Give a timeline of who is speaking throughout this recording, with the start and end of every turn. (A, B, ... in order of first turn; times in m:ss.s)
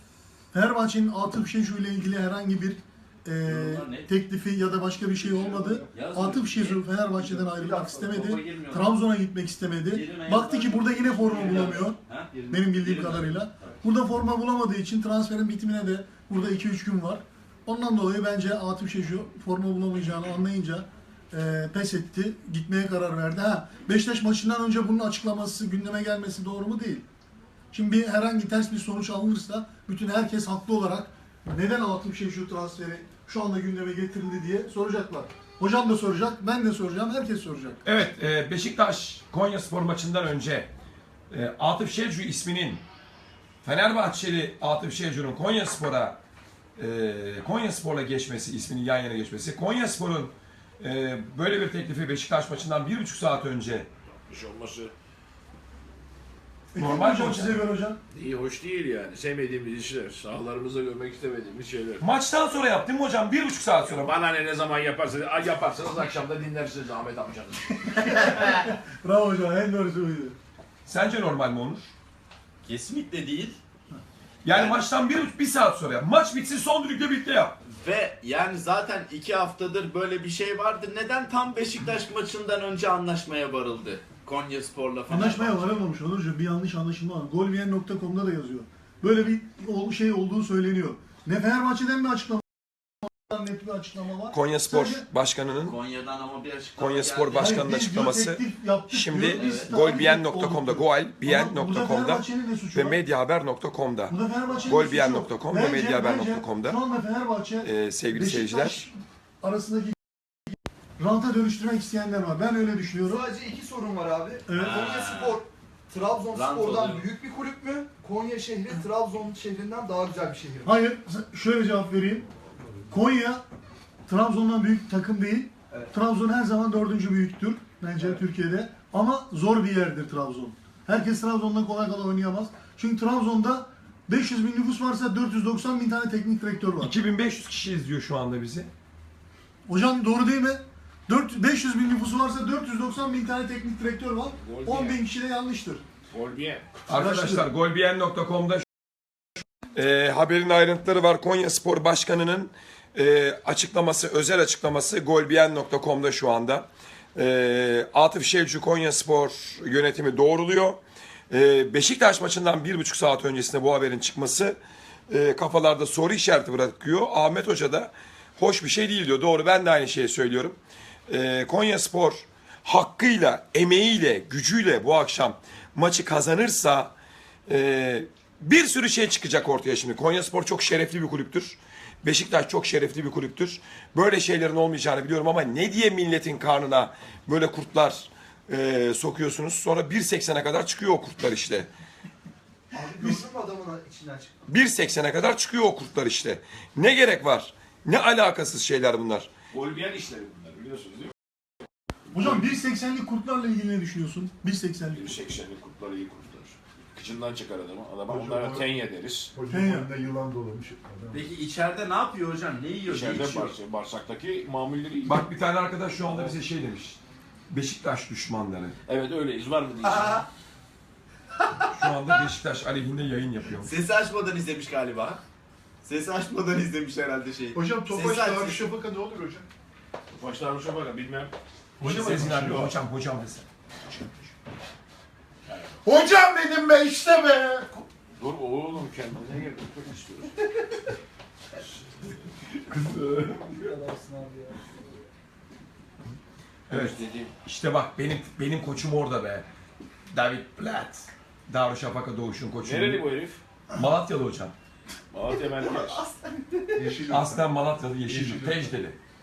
0:00.5-0:12.0 A
0:03.4-0:04.1 B
0:05.9-0:06.8 B
0:07.1-0:08.0 C
0:07.8-0:09.0 B
0:09.9-0:13.8 B
0:11.4-0:11.7 C
0:12.3-0:12.9 C
0:12.5-0:27.0 A
0:27.7-0:37.8 A
0:37.8-0:40.7 D
0:41.3-0:42.8 D
0:43.6-0:46.2 D
0:46.8-0:53.9 D
0:54.3-0:54.9 E
0:56.7-0:58.0 A
0:56.8-0:57.7 D
0:58.1-1:02.0 E
1:02.0-1:04.1 D
1:03.9-1:08.1 E
1:07.9-1:10.4 A
1:10.8-1:11.9 D
1:12.6-1:13.6 B
1:14.4-1:17.6 D
1:14.5-1:14.8 B
1:17.8-1:25.8 B
1:25.1-1:35.0 A
1:34.3-1:35.8 D
1:35.6-1:37.8 B
1:36.8-1:46.8 D
1:37.4-1:43.0 A
1:39.3-1:39.7 B
1:44.1-1:50.0 A
1:47.6-1:48.9 D
1:51.0-1:53.2 A
1:53.0-2:00.8 C
1:54.5-1:55.0 A
1:54.5-1:55.4 B
1:56.3-1:57.1 B
2:00.6-2:02.2 A
2:02.9-2:03.4 A
2:04.1-2:16.9 A
2:16.8-2:18.7 D
2:19.7-2:25.8 A
2:24.4-2:25.0 E
2:26.1-2:26.8 E
2:26.9-2:27.4 A
2:26.9-2:28.7 D
2:29.7-2:44.6 D
2:45.1-2:50.6 D
2:51.1-2:56.9 D
2:57.5-3:11.7 D
3:12.7-3:14.4 C
3:14.5-3:19.3 D
3:19.5-3:21.1 E
3:22.1-3:25.2 A
3:24.9-3:29.3 E
3:28.0-3:28.7 F
3:29.3-3:31.2 F
3:29.5-3:29.9 A
3:31.1-3:33.5 B
3:32.9-3:35.2 E
3:35.0-3:38.8 D
3:38.8-3:40.3 E
3:41.7-3:43.7 D
3:43.6-3:45.2 B
3:45.8-3:48.6 B
3:47.5-3:49.5 F
3:50.1-3:51.3 E
3:51.8-3:52.7 F
3:51.8-3:53.4 D
3:53.9-3:54.2 E
3:55.5-3:55.7 E
3:55.8-3:57.7 F
3:58.2-4:00.3 E
4:02.7-4:03.7 D
4:03.4-4:04.7 C
4:06.7-4:07.3 E
4:06.7-4:09.5 D
4:10.1-4:13.0 D
4:12.6-4:13.4 E
4:13.7-4:14.5 D
4:15.1-4:16.0 E
4:15.6-4:16.9 C
4:16.7-4:17.4 F
4:17.1-4:19.0 D
4:18.0-4:18.7 F